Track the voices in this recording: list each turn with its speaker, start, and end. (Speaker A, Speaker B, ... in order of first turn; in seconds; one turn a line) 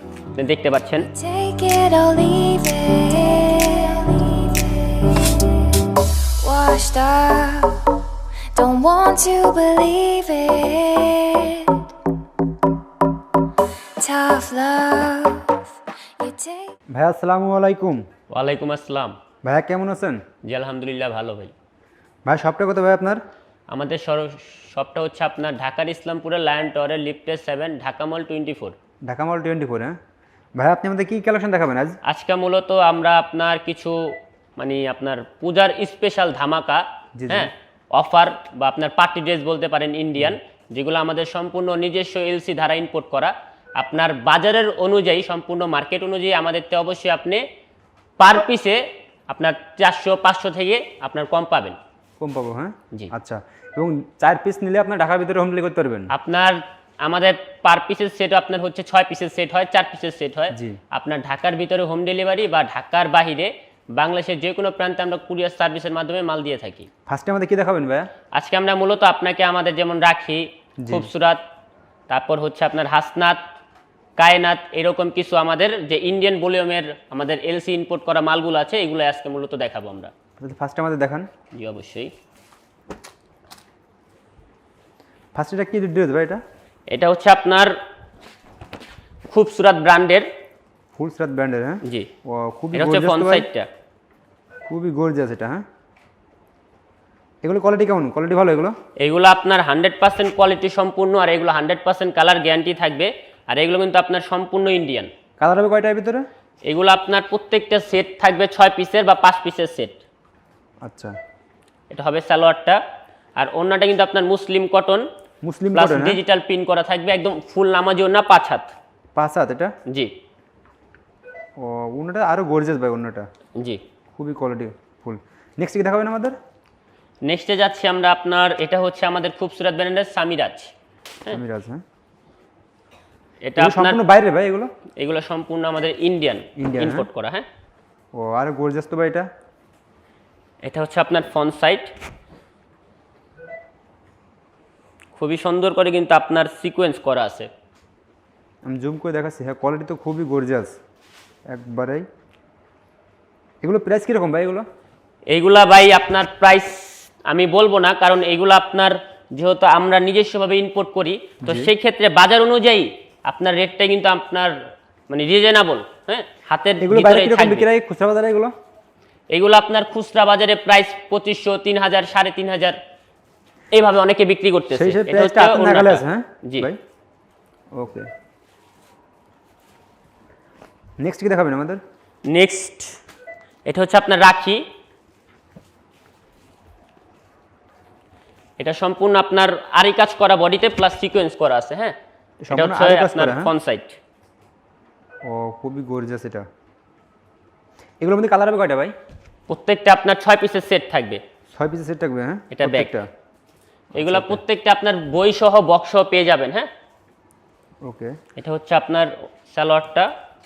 Speaker A: 0.3-1.1
Speaker B: 1.1-8.0
Speaker B: 8.5-11.9
Speaker B: 14.0-16.7
Speaker C: 16.9-18.1
Speaker A: 18.3-19.2
Speaker C: 19.4-20.2
Speaker A: 20.4-21.5
Speaker C: 22.2-23.2
Speaker A: 23.7-28.8
Speaker C: 29.0-30.0
Speaker C: 30.6-32.0
Speaker A: 32.0-47.4
Speaker C: 37.1-37.5
Speaker A: 48.2-51.8
Speaker C: 52.2-56.1
Speaker A: 56.1-66.9
Speaker C: 60.5-60.8
Speaker C: 67.1-68.1
Speaker A: 68.3-71.4
Speaker C: 70.8-71.1
Speaker A: 72.1-73.4
Speaker A: 74.2-80.1
Speaker C: 80.4-81.3
Speaker A: 81.5-82.1
Speaker C: 85.3-86.4
Speaker A: 86.9-87.7
Speaker A: 89.3-90.3
Speaker C: 91.0-93.5
Speaker A: 91.8-92.1
Speaker A: 92.7-93.7
Speaker C: 94.7-95.6
Speaker C: 97.4-98.8
Speaker A: 99.0-105.1
Speaker C: 105.4-106.2
Speaker A: 106.7-110.0
Speaker C: 110.8-111.2
Speaker A: 111.9-112.8
Speaker A: 113.4-115.1
Speaker C: 115.4-116.2
Speaker A: 115.7-118.7
Speaker C: 119.1-119.7
Speaker A: 119.9-120.1
Speaker C: 121.6-123.2
Speaker C: 124.2-126.3
Speaker A: 127.2-131.4
Speaker C: 131.3-131.8
Speaker A: 133.4-134.0
Speaker C: 133.6-134.7
Speaker A: 135.0-137.5
Speaker C: 136.6-137.1
Speaker C: 138.1-139.3
Speaker A: 140.6-141.9
Speaker A: 145.1-147.5
Speaker C: 148.6-150.8
Speaker C: 151.5-152.1
Speaker C: 153.6-154.6
Speaker A: 155.3-167.7
Speaker C: 161.4-161.7
Speaker C: 166.8-168.5
Speaker A: 169.3-172.8
Speaker A: 173.7-176.7
Speaker C: 174.7-176.8
Speaker C: 177.7-178.1
Speaker C: 181.0-181.8
Speaker A: 182.2-183.0
Speaker A: 183.6-184.6
Speaker A: 188.6-191.9
Speaker C: 192.4-193.5
Speaker A: 192.5-194.0
Speaker C: 195.2-196.4
Speaker C: 198.0-198.9
Speaker A: 199.5-201.2
Speaker C: 201.5-203.1
Speaker A: 202.5-202.9
Speaker C: 203.9-204.4
Speaker A: 204.0-206.7
Speaker C: 207.8-208.2
Speaker A: 208.4-210.1